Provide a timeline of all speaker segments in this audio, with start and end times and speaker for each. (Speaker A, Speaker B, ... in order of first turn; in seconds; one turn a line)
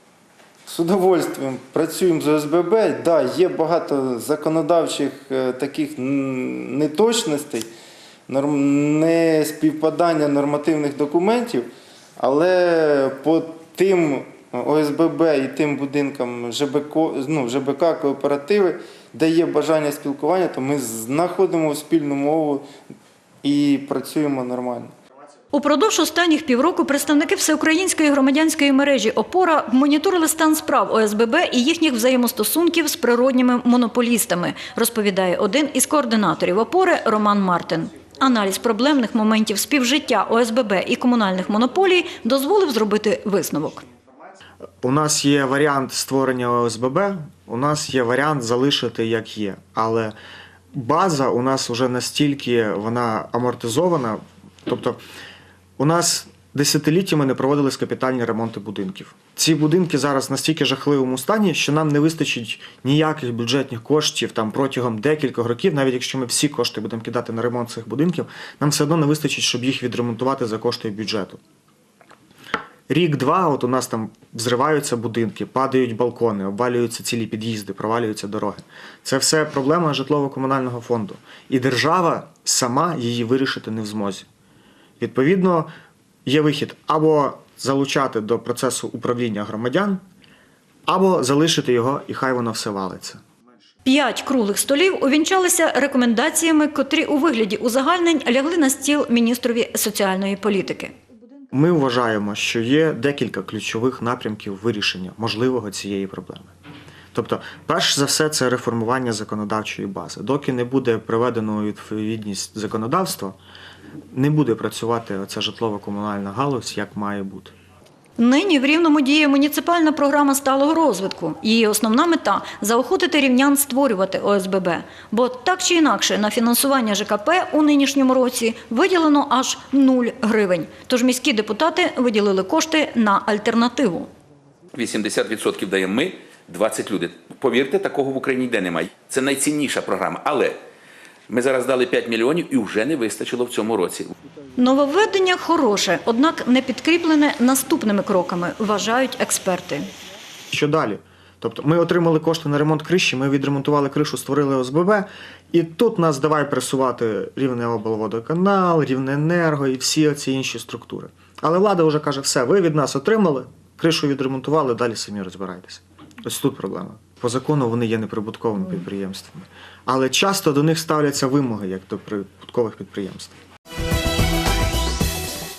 Speaker A: 0.7-7.7
Speaker A: 8.3-11.7
Speaker A: 12.2-22.7
Speaker A: 23.4-24.9
Speaker B: 25.5-43.8
Speaker C: 44.8-50.1
Speaker C: 50.7-55.0
Speaker C: 55.8-71.4
Speaker C: 72.9-84.3
Speaker C: 85.0-85.7
Speaker C: 86.2-90.0
Speaker C: 90.8-93.2
Speaker B: 93.8-100.9
Speaker C: 101.5-106.5
Speaker C: 107.1-113.4
Speaker C: 114.1-117.5
Speaker B: 118.2-134.1
Speaker D: 134.7-140.6
Speaker D: 141.3-144.1
Speaker B: 144.6-149.9
Speaker C: 150.5-173.3